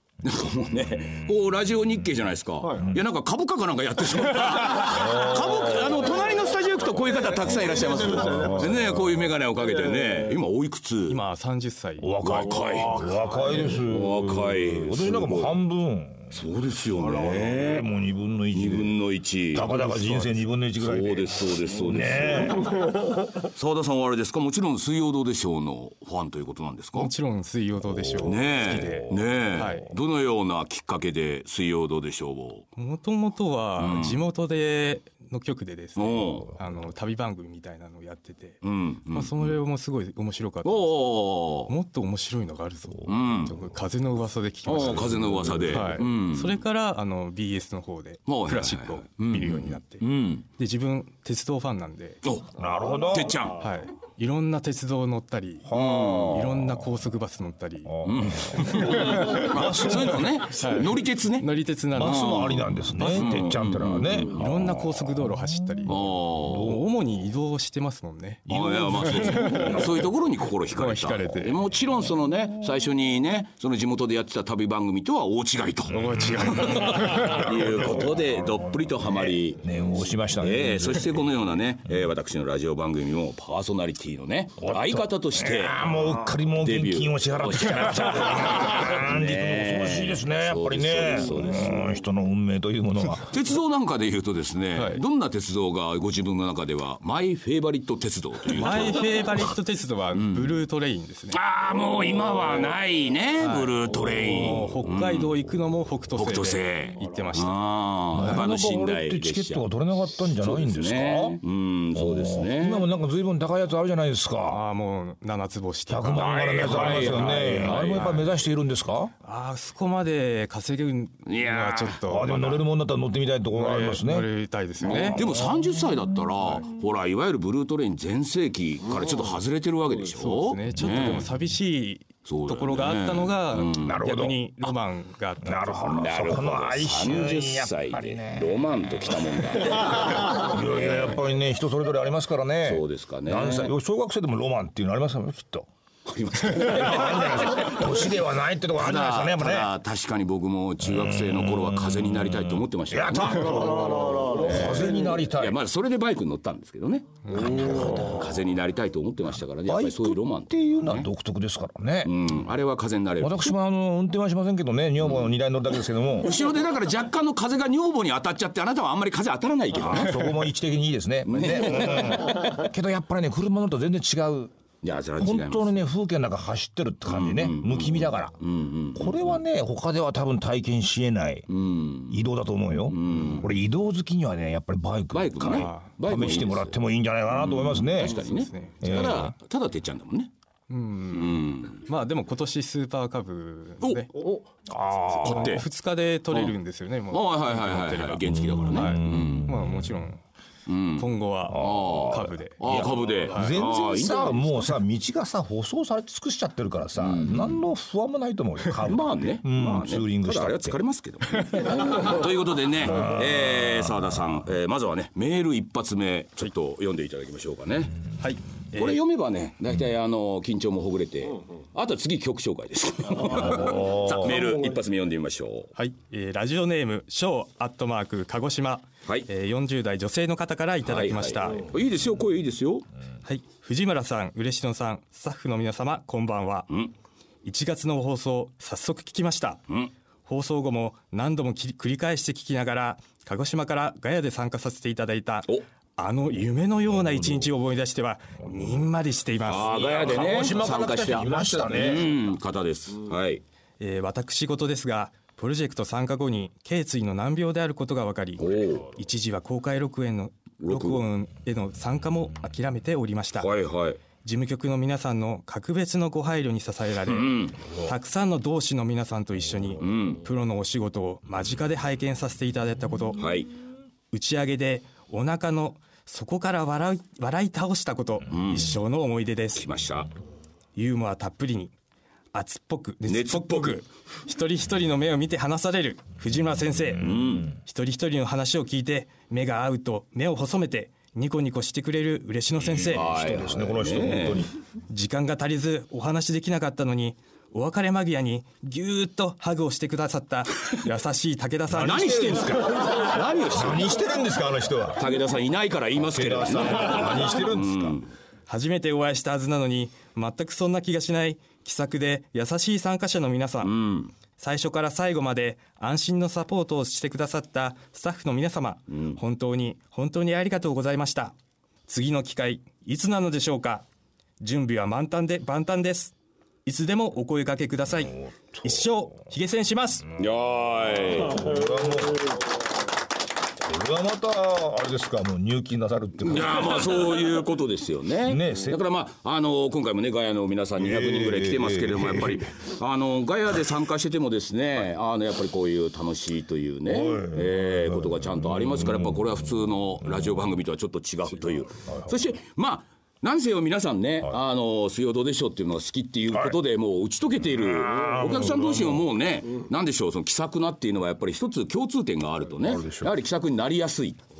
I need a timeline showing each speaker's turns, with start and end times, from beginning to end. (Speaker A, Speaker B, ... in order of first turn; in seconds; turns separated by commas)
Speaker A: 0.2-11.2, Speaker B: 4.8-6.0, Speaker B: 8.0-9.3, Speaker C: 11.1-12.1, Speaker B: 12.0-16.3, Speaker A: 12.2-15.5, Speaker A: 16.3-17.9, Speaker B: 17.0-18.9, Speaker A: 18.5-20.0, Speaker B: 19.5-22.9, Speaker A: 20.8-27.1, Speaker C: 26.9-29.9, Speaker B: 27.9-29.6, Speaker A: 28.2-32.7, Speaker C: 32.8-38.6, Speaker A: 33.8-34.2, Speaker A: 36.0-36.5, Speaker A: 38.6-39.4, Speaker C: 39.1-41.0, Speaker A: 40.6-41.7, Speaker C: 41.7-50.0, Speaker A: 43.0-43.5, Speaker A: 44.6-46.6, Speaker B: 45.1-45.6, Speaker A: 48.3-50.4, Speaker C: 50.6-52.2, Speaker A: 52.2-52.5, Speaker B: 52.6-53.4, Speaker A: 53.0-53.6, Speaker C: 53.5-57.9, Speaker B: 55.6-56.7, Speaker A: 55.7-56.6, Speaker B: 57.8-60.4, Speaker A: 58.0-64.5, Speaker C: 58.6-59.5, Speaker C: 60.5-62.4, Speaker B: 61.9-66.8, Speaker C: 62.9-63.5, Speaker C: 64.3-69.9, Speaker A: 65.8-66.8, Speaker A: 68.5-79.6, Speaker B: 68.5-69.9, Speaker C: 70.7-71.7, Speaker C: 75.9-77.6, Speaker B: 77.1-81.3, Speaker A: 80.4-85.9, Speaker B: 84.6-93.3, Speaker A: 86.6-91.9, Speaker A: 93.2-99.0, Speaker C: 94.7-95.0, Speaker C: 98.5-101.4, Speaker A: 100.2-100.5, Speaker A: 101.3-105.3, Speaker C: 103.4-107.5, Speaker A: 106.2-109.6, Speaker B: 108.1-111.4, Speaker A: 110.3-112.8, Speaker B: 111.9-114.6, Speaker C: 114.4-118.2, Speaker B: 115.9-119.1, Speaker A: 116.2-118.2, Speaker C: 119.2-122.6, Speaker A: 121.3-122.0, Speaker B: 122.0-124.3, Speaker C: 123.5-125.3, Speaker A: 124.8-131.3, Speaker B: 124.9-125.9, Speaker C: 130.1-135.9, Speaker A: 132.2-134.0, Speaker B: 133.8-134.4, Speaker B: 135.4-138.6, Speaker A: 135.8-141.2, Speaker B: 139.6-145.7, Speaker A: 142.6-143.7, Speaker A: 146.1-148.1, Speaker B: 146.5-149.7, Speaker A: 148.8-161.1, Speaker B: 150.8-155.6, Speaker C: 153.6-154.1, Speaker C: 157.2-157.7, Speaker B: 157.3-158.4, Speaker B: 159.7-162.1, Speaker A: 162.0-163.5, Speaker B: 163.2-166.3, Speaker A: 165.0-165.3, Speaker A: 166.2-170.4, Speaker B: 169.7-174.5, Speaker A: 171.2-172.4, Speaker A: 174.8-175.7, Speaker B: 175.2-178.4, Speaker A: 177.1-179.4, Speaker B: 178.9-181.5, Speaker A: 181.5-182.3, Speaker B: 182.1-188.2, Speaker A: 182.9-183.5, Speaker A: 185.1-186.8, Speaker C: 185.4-185.9, Speaker A: 187.3-190.3, Speaker C: 188.0-188.8, Speaker B: 188.8-189.3, Speaker C: 190.7-194.1, Speaker A: 191.1-191.8, Speaker A: 193.8-194.4, Speaker B: 194.7-195.6, Speaker A: 195.1-195.6, Speaker C: 195.2-200.2, Speaker A: 197.1-199.6, Speaker B: 198.3-199.9, Speaker A: 200.7-204.6, Speaker C: 201.0-203.6, Speaker B: 201.5-210.8, Speaker A: 207.0-207.6, Speaker A: 208.8-218.0, Speaker B: 212.9-213.5, Speaker C: 218.2-219.0, Speaker A: 218.7-225.7, Speaker B: 223.3-224.4, Speaker C: 225.8-231.7, Speaker A: 230.8-232.8, Speaker C: 233.2-236.7, Speaker C: 237.4-239.6, Speaker C: 240.3-249.8, Speaker A: 249.4-253.4, Speaker B: 249.5-252.1, Speaker C: 253.8-263.5, Speaker A: 258.4-258.8, Speaker A: 260.6-261.0, Speaker A: 263.4-264.0, Speaker C: 264.2-273.2, Speaker A: 267.1-267.6, Speaker A: 269.8-270.2, Speaker A: 273.2-273.5, Speaker C: 274.1-279.6, Speaker A: 278.3-278.8, Speaker A: 279.5-280.1, Speaker C: 280.8-281.7, Speaker C: 282.3-293.1, Speaker A: 283.1-283.8, Speaker A: 287.0-287.5, Speaker A: 292.7-294.5, Speaker B: 292.9-294.5, Speaker C: 294.9-302.5, Speaker A: 301.8-303.9, Speaker B: 301.8-305.1, Speaker A: 305.0-308.1, Speaker B: 306.0-308.0, Speaker C: 308.5-313.7, Speaker A: 313.6-314.1, Speaker C: 314.4-321.3, Speaker A: 318.9-319.2, Speaker C: 321.9-323.8, Speaker C: 324.4-326.1, Speaker C: 326.6-330.1, Speaker A: 330.2-331.5, Speaker B: 331.2-332.3, Speaker B: 333.6-337.1, Speaker A: 336.2-364.2, Speaker B: 338.2-338.8, Speaker B: 340.8-342.4, Speaker B: 346.9-349.3, Speaker B: 356.3-356.6, Speaker B: 357.6-359.0, Speaker B: 362.6-363.1